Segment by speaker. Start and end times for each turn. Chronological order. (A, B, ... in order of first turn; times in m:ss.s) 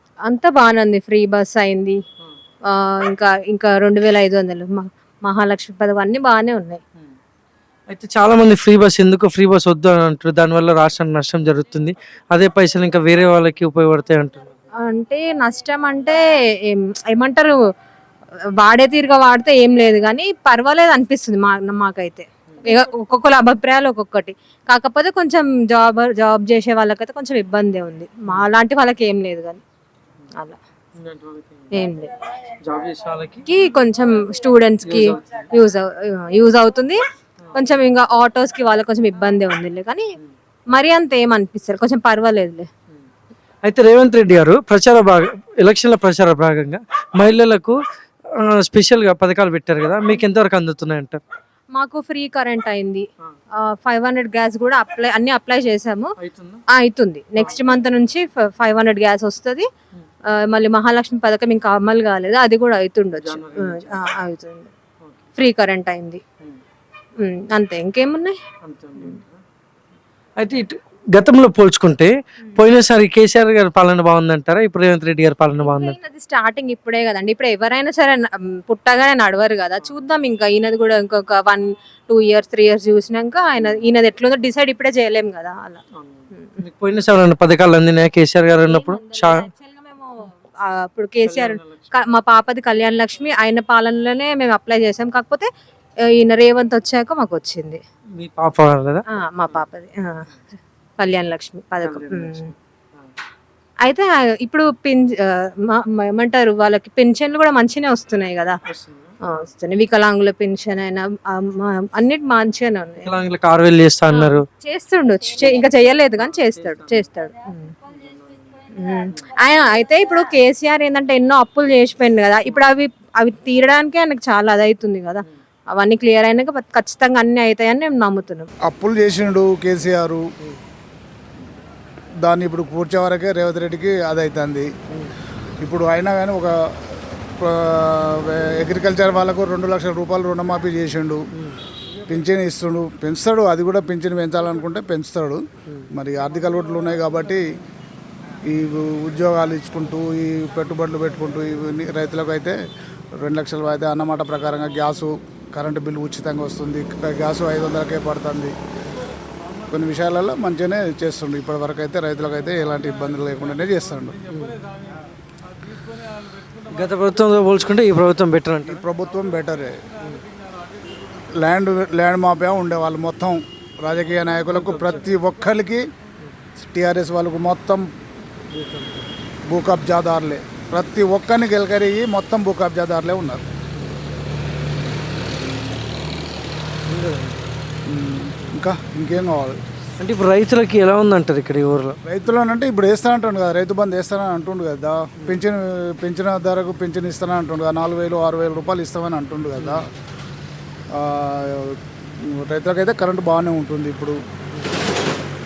0:00.3-0:02.0 A
0:02.7-0:06.8 A
0:07.9-0:14.5 B
0:14.9-0:17.6 A
0:18.6-0:29.6 A
0:31.0-0:31.8 B
0:31.7-0:32.3 A
0:32.6-0:33.5 B
0:33.5-0:37.0 A
0:34.8-0:35.4 B
0:37.5-0:40.1 A
0:40.7-0:42.7 A
0:43.6-0:47.8 B
0:48.3-0:51.2 B
0:51.7-0:53.0 A
0:53.6-0:56.1 A
0:56.2-0:56.6 B
0:56.8-0:59.7 A
1:00.4-1:04.7 A
1:03.2-1:04.0 B
1:05.0-1:05.3 B
1:05.4-1:06.2 A
1:07.2-1:08.4 A
1:08.6-1:09.4 B
1:10.4-1:16.0 B
1:15.6-1:25.8 A
1:26.0-1:29.5 B
1:26.4-1:26.6 A
1:28.6-1:35.5 A
1:31.2-1:32.0 B
1:36.2-1:37.8 A
1:38.2-1:39.6 B
1:39.1-1:40.2 A
1:41.0-1:42.5 A
1:41.8-1:43.1 B
1:43.8-1:48.6 A
1:48.6-1:49.1 B
1:49.2-1:53.1 A
1:53.0-1:54.4 B
1:54.1-1:57.7 A
1:56.2-1:57.1 B
1:57.9-1:59.2 B
1:58.7-2:08.5 A
2:08.6-2:10.2 C
2:12.2-2:14.7 C
2:15.6-2:21.2 C
2:22.1-2:25.4 C
2:25.9-2:27.4 C
2:28.4-2:32.6 C
2:33.2-2:38.6 C
2:39.7-2:44.2 C
2:44.3-2:44.7 B
2:46.7-2:48.8 B
2:48.6-2:49.8 C
2:51.4-2:55.9 C
2:54.5-2:55.0 B
2:56.6-2:57.9 C
2:58.5-2:59.1 B
2:59.4-3:03.4 C
3:06.9-3:07.5 B
3:07.9-3:09.6 C
3:10.0-3:12.0 B
3:12.0-3:19.9 C
3:19.6-3:19.8 B
3:20.9-3:24.2 C